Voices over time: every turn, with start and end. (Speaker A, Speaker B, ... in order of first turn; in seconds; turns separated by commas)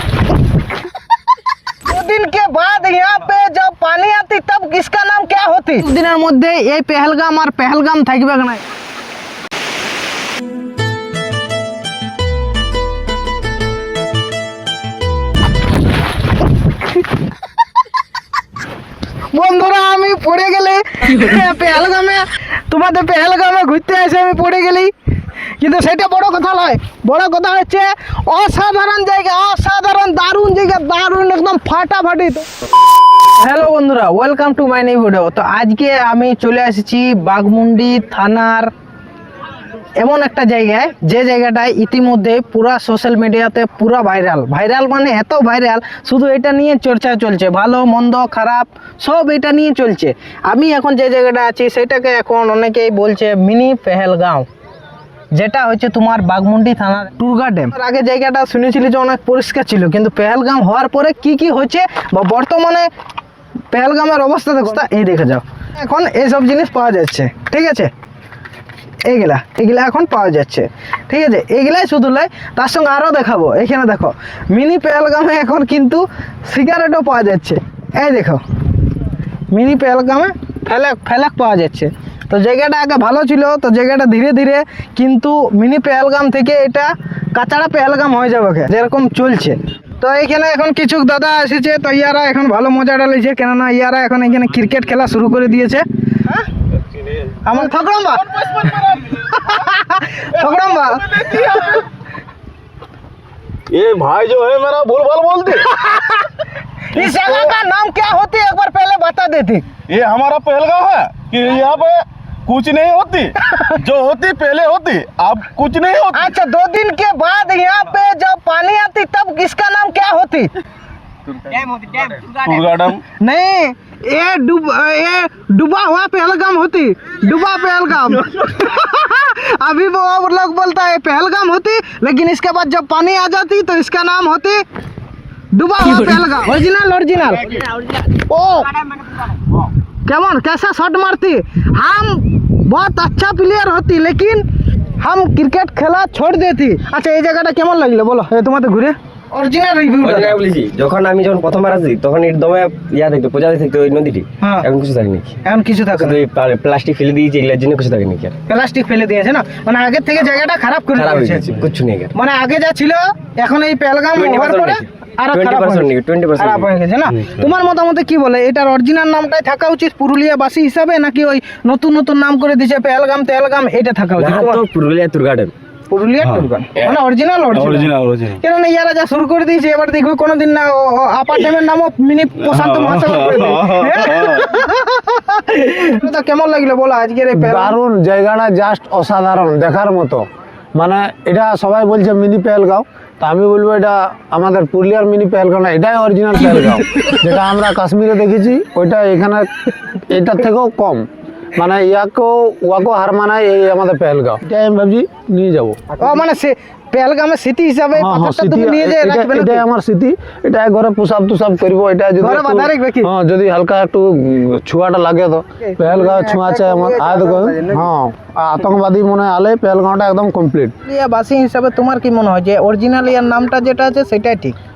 Speaker A: 1.8-8.6, Speaker A: 19.3-24.9, Speaker A: 25.6-32.5, Speaker A: 33.3-38.7, Speaker A: 40.0-54.5, Speaker A: 55.3-62.9, Speaker A: 63.7-67.9, Speaker A: 69.0-78.4, Speaker A: 79.5-96.4, Speaker A: 97.4-101.7, Speaker B: 103.7-105.7, Speaker A: 105.8-106.2, Speaker A: 106.8-109.7, Speaker B: 109.9-116.3, Speaker A: 113.5-113.7, Speaker A: 116.1-120.5, Speaker C: 121.5-122.2, Speaker B: 122.4-123.0, Speaker A: 123.2-134.6, Speaker A: 135.5-138.7, Speaker A: 140.1-150.4, Speaker C: 150.0-155.3, Speaker A: 154.4-154.7, Speaker A: 155.4-156.2, Speaker C: 155.9-158.3, Speaker A: 158.4-161.6, Speaker C: 160.9-162.1, Speaker A: 162.1-174.6, Speaker C: 164.1-166.7, Speaker C: 174.2-175.5, Speaker A: 175.9-187.8, Speaker B: 177.5-178.4, Speaker B: 182.6-183.4, Speaker D: 187.3-190.2, Speaker D: 190.8-205.8, Speaker A: 206.0-209.7, Speaker D: 207.9-220.7, Speaker A: 212.2-213.1, Speaker A: 215.6-217.9, Speaker A: 220.8-224.6